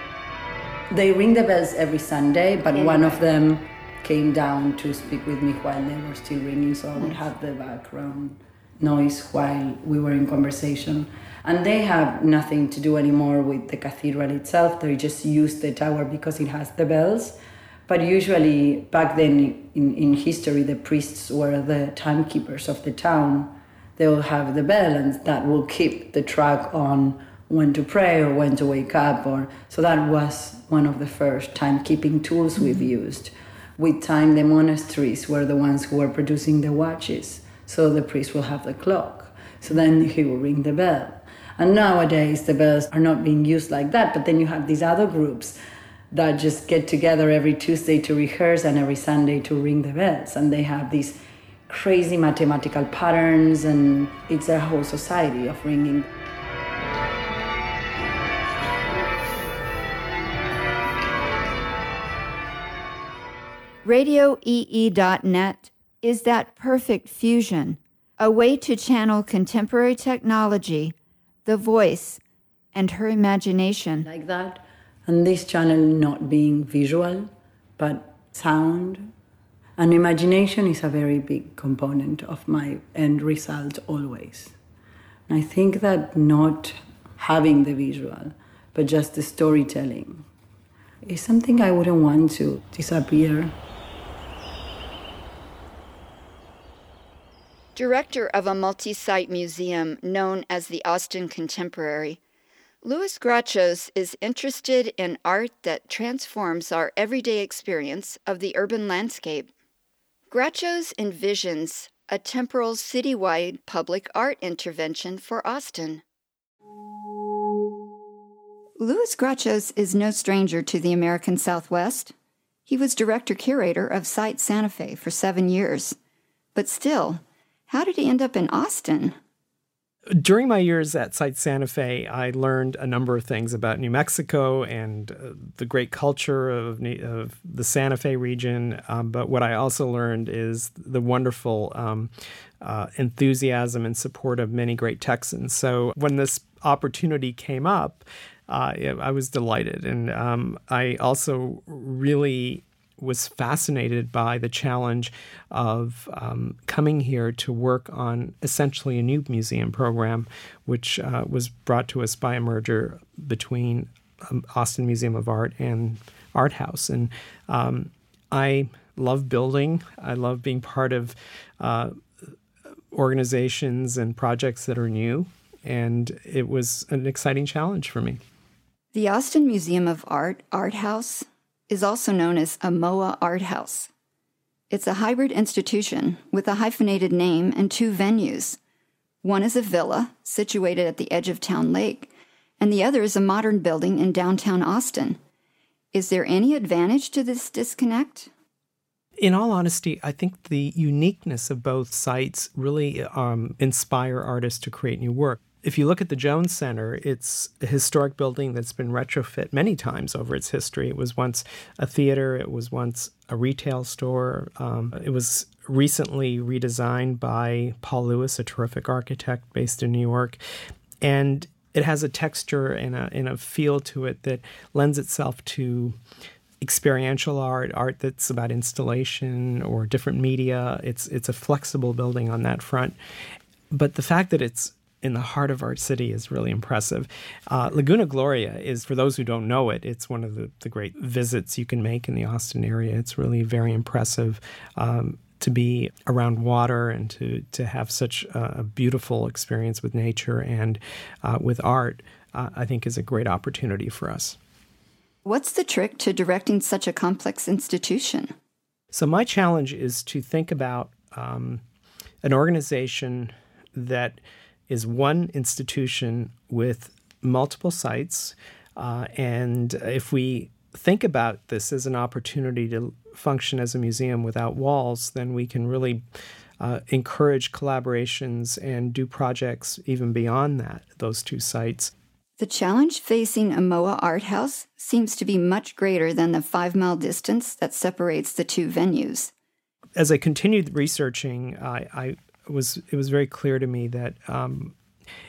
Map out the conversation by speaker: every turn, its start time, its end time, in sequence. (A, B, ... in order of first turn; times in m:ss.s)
0:00.9-0:45.6 A
0:02.8-0:03.1 B
0:46.1-0:56.1 A
1:03.8-1:10.9 B
1:11.4-1:12.2 B
1:12.7-1:14.1 B
1:14.0-1:19.1 A
1:19.8-1:24.5 A
1:25.3-1:30.3 A
1:31.0-1:33.6 A
1:37.8-1:42.2 B
1:42.8-1:49.5 B
1:50.3-1:56.0 B
1:58.8-2:02.1 B
2:02.7-2:06.0 B
2:06.5-2:09.2 B
2:10.2-2:22.1 C
2:22.6-2:52.0 C
2:52.9-2:58.2 C
2:58.9-3:03.9 B
3:04.7-3:08.6 B
3:09.2-3:15.2 B
3:15.9-3:18.3 B
3:19.2-3:40.4 C
3:41.0-3:46.0 C
3:46.6-3:52.9 C
3:53.7-4:14.4 C
4:15.2-4:18.3 B
4:18.9-4:21.6 C
4:22.2-4:36.0 C
4:36.6-4:41.9 C
4:42.4-4:49.3 B
4:50.0-4:54.7 C